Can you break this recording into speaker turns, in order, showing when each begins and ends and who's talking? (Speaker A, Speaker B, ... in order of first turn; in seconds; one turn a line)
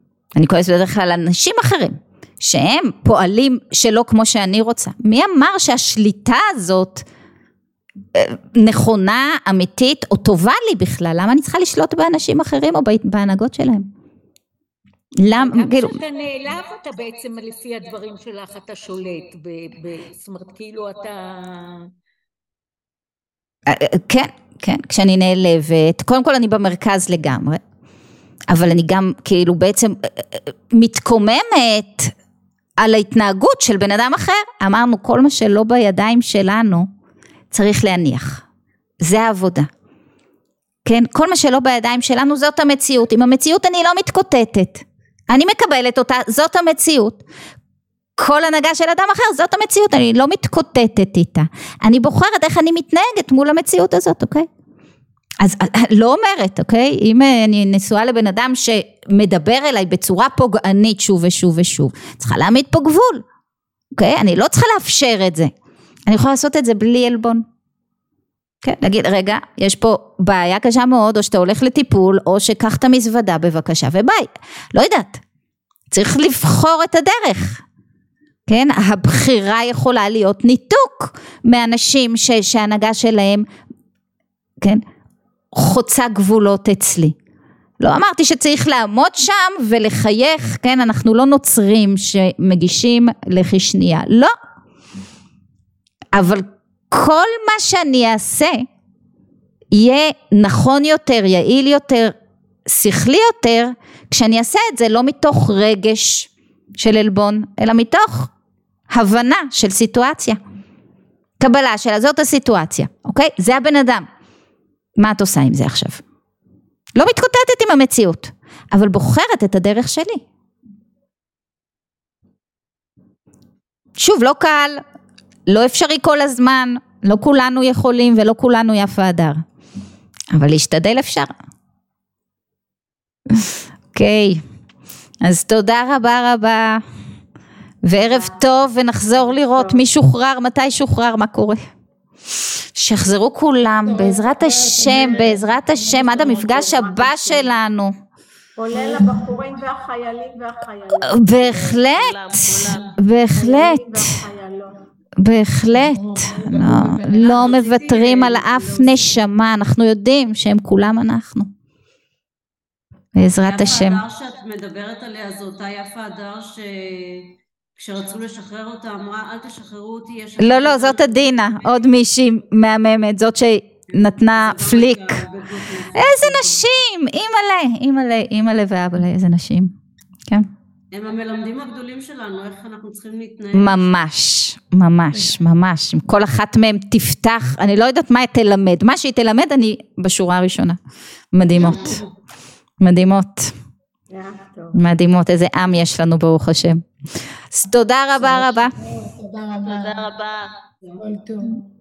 Speaker A: 0.4-7.0
Speaker A: 8.2-13.9
Speaker A: 15.2-16.0
Speaker B: 15.4-21.9
Speaker A: 23.7-27.6
Speaker A: 28.5-32.1
Speaker A: 32.8-36.9
Speaker A: 37.5-38.4
Speaker A: 39.0-39.7
Speaker A: 40.9-47.2
Speaker A: 48.2-54.5
Speaker A: 55.4-63.2
Speaker A: 64.0-65.5
Speaker A: 66.1-67.4
Speaker A: 68.6-75.2
Speaker A: 75.9-77.6
Speaker A: 78.5-83.5
Speaker A: 85.5-87.1
Speaker A: 87.8-94.3
Speaker A: 96.1-98.7
Speaker A: 99.7-102.2
Speaker A: 102.7-108.3
Speaker A: 108.9-110.4
Speaker A: 111.4-114.1
Speaker A: 115.0-116.0
Speaker A: 117.0-120.2
Speaker A: 124.0-124.8
Speaker A: 125.5-129.4
Speaker A: 130.3-131.3
Speaker A: 133.3-134.4
Speaker A: 135.2-136.8
Speaker A: 137.8-141.6
Speaker C: 137.9-138.4
Speaker C: 139.2-139.9
Speaker A: 142.8-148.0
Speaker D: 143.9-146.1
Speaker C: 146.0-147.5
Speaker C: 148.6-151.8
Speaker A: 151.0-154.2
Speaker E: 151.3-153.0
Speaker C: 153.3-154.8
Speaker A: 155.2-161.5
Speaker D: 155.7-157.3
Speaker F: 157.2-159.1
Speaker A: 163.2-164.0
Speaker F: 163.4-171.9
Speaker A: 170.4-175.2
Speaker F: 173.9-176.7
Speaker A: 175.9-179.8
Speaker F: 180.9-184.0
Speaker A: 183.5-190.8
Speaker A: 191.3-192.0
Speaker F: 191.6-192.1
Speaker A: 192.8-193.5
Speaker C: 194.1-194.8
Speaker A: 194.7-196.8
Speaker A: 197.5-198.8
Speaker D: 198.2-200.1
Speaker E: 199.6-200.5
Speaker D: 201.0-201.6